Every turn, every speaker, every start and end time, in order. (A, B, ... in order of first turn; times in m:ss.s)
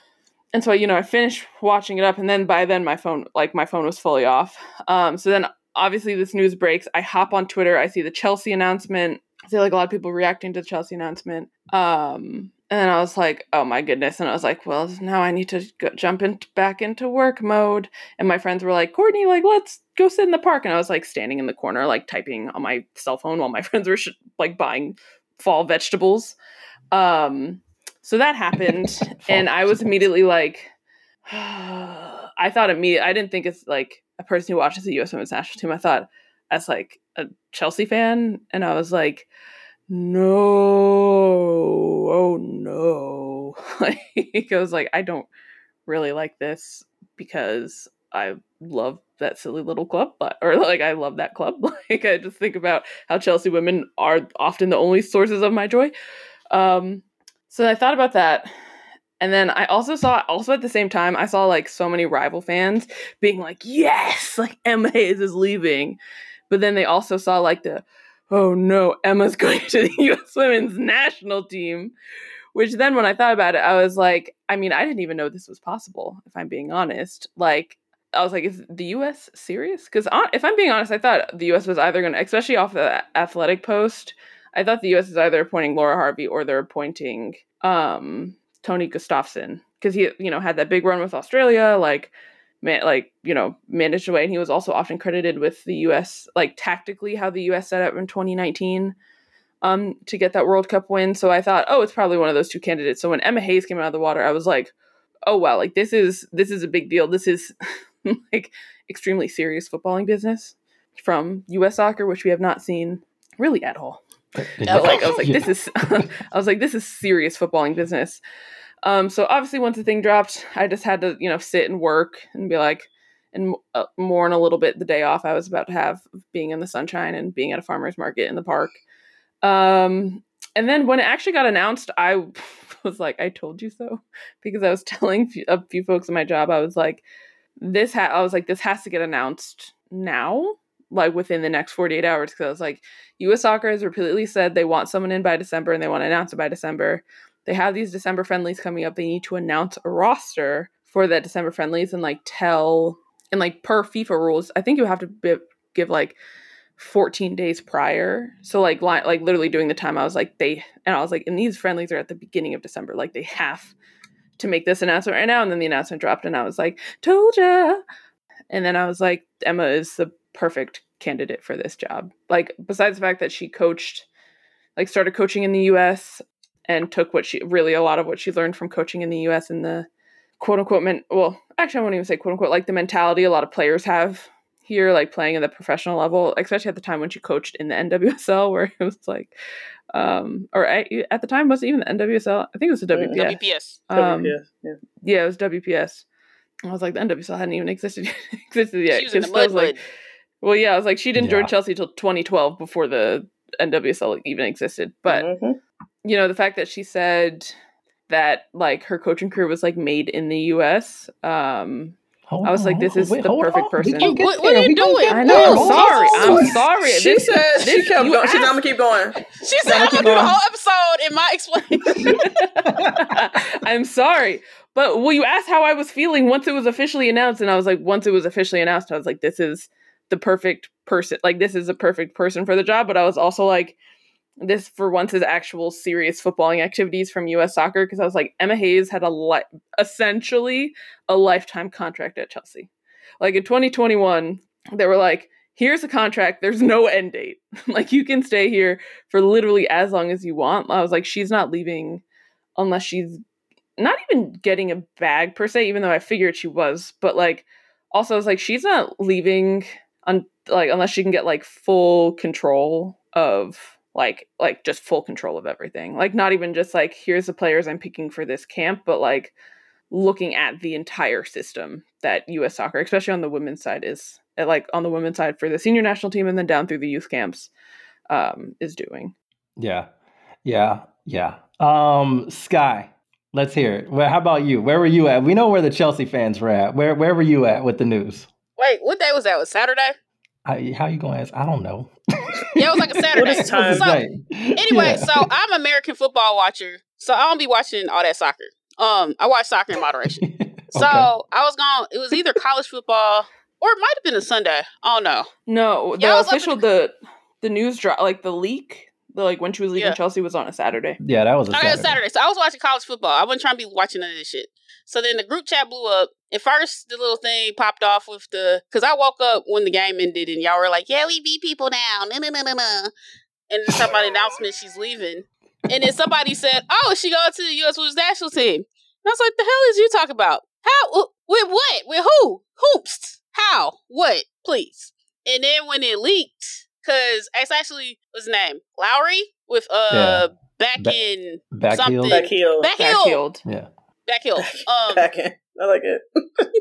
0:00.5-0:26.4 A
0:26.9-0:30.7 A
0:28.9-0:29.8 B
0:31.3-0:39.3 A
0:39.9-0:45.3 A
0:45.8-0:55.9 A
0:56.5-0:58.5 A
0:59.2-1:06.0 A
1:06.5-1:11.9 A
1:12.5-1:38.9 A
1:39.6-1:44.7 A
1:45.2-1:47.5 A
1:48.0-1:54.0 A
1:54.4-1:55.5 B
1:54.6-1:55.2 C
1:54.6-1:58.2 A
1:58.8-2:08.8 A
2:09.4-2:17.0 A
2:17.6-2:36.2 A
2:36.8-2:43.7 A
2:44.4-2:47.8 A
2:48.5-2:54.1 A
2:54.8-2:59.9 A
3:00.4-3:09.3 A
3:09.9-3:14.4 A
3:12.9-3:13.2 D
3:13.1-3:13.8 C
3:13.9-3:14.8 D
3:15.0-3:16.0 A
3:16.7-3:19.8 A
3:18.9-3:19.8 C
3:20.4-3:25.3 A
3:21.2-3:21.5 B
3:25.0-3:25.6 D
3:26.0-3:27.5 A
3:28.1-3:34.2 A
3:32.3-3:36.6 B
3:34.0-3:36.6 C
3:35.0-3:38.5 A
3:35.3-3:40.3 D
3:39.4-3:42.2 C
3:40.0-3:40.3 B
3:41.9-3:53.8 A
3:42.0-3:43.3 B
3:54.4-4:12.0 A
4:12.6-4:13.2 A
4:13.8-4:29.3 A
4:29.9-4:37.5 A
4:38.1-4:39.1 A
4:39.6-4:39.9 B
4:40.4-4:48.3 B
4:48.6-4:49.9 C
4:50.4-4:55.2 B
4:52.6-4:54.0 C
4:53.1-4:53.9 D
4:54.6-5:05.3 C
5:00.2-5:01.1 B
5:05.5-5:11.0 A
5:06.0-5:06.6 C
5:11.0-5:12.0 B
5:11.5-5:22.9 C
5:23.5-5:43.2 C
5:39.9-5:40.2 B
5:41.5-5:42.2 B
5:42.1-5:42.7 D
5:42.8-5:43.4 A
5:44.1-5:45.1 C
5:44.4-5:46.5 D